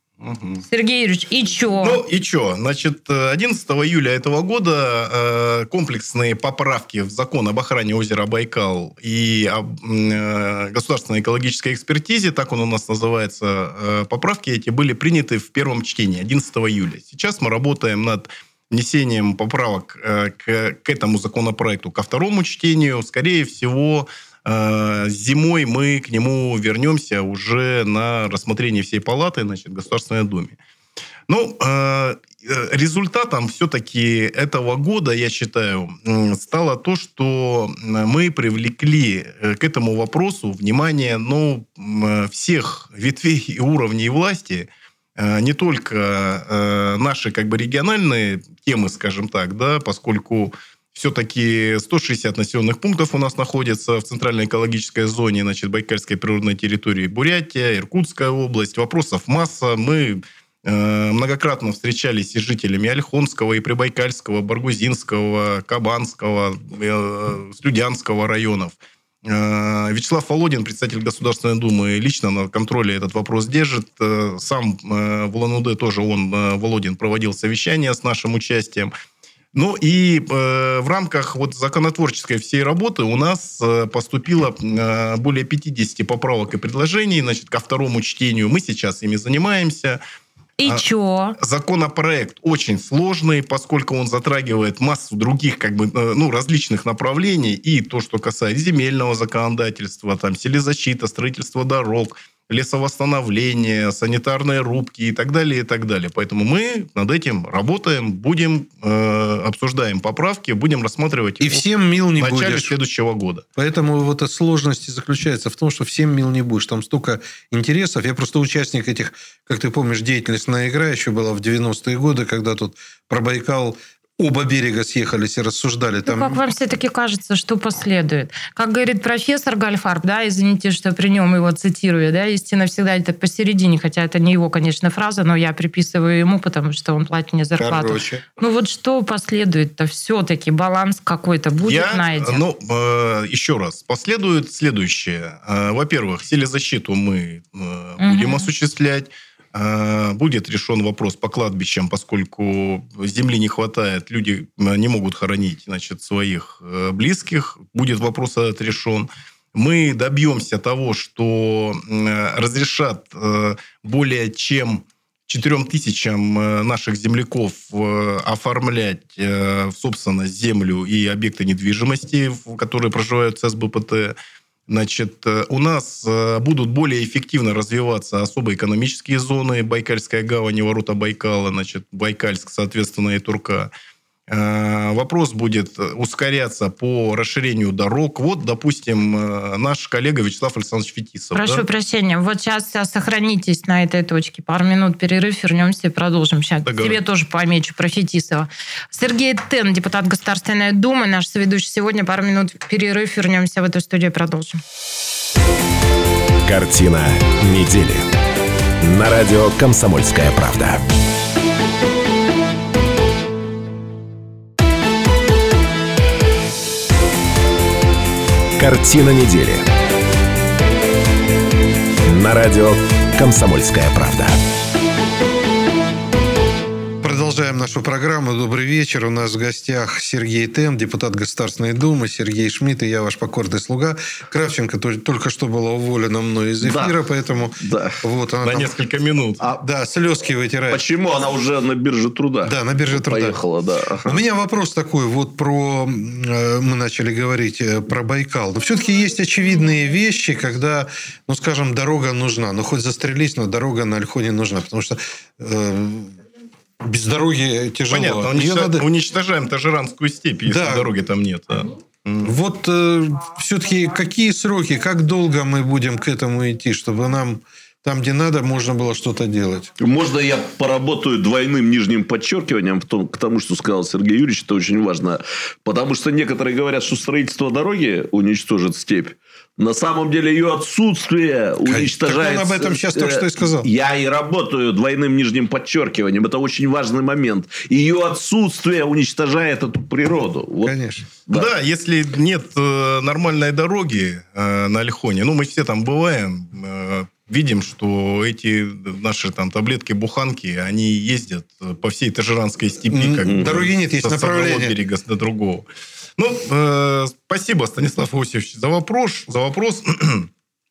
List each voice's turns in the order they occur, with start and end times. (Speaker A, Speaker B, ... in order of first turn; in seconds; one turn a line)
Speaker A: 0.2-0.6
Speaker B: 0.7-2.0
Speaker A: 1.8-30.6
Speaker A: 31.3-78.9
Speaker A: 79.5-90.0
Speaker B: 90.6-91.4
Speaker A: 91.4-113.5
Speaker C: 111.4-112.8
Speaker C: 113.6-126.4
Speaker B: 126.1-142.4
Speaker C: 137.6-138.2
Speaker A: 141.6-174.2
Speaker B: 148.0-148.5
Speaker A: 174.7-183.7
Speaker A: 184.3-191.6
Speaker B: 191.3-204.6
Speaker A: 196.7-197.0
Speaker D: 206.5-208.1
Speaker D: 208.8-210.8
Speaker D: 218.6-219.7
Speaker D: 222.1-224.4
Speaker C: 227.0-238.7
Speaker E: 236.6-237.0
Speaker E: 237.6-238.0
Speaker A: 238.4-239.4
Speaker C: 239.6-240.8
Speaker E: 240.7-244.2
Speaker C: 242.4-243.4
Speaker C: 244.1-256.2
Speaker C: 256.8-258.9
Speaker A: 257.9-262.3
Speaker C: 260.5-260.9
Speaker C: 262.2-269.7
Speaker E: 269.8-290.8
Speaker C: 281.6-283.7
Speaker C: 290.6-291.1
Speaker E: 291.3-291.5
Speaker A: 291.3-310.3
Speaker C: 302.9-304.8
Speaker E: 303.2-303.6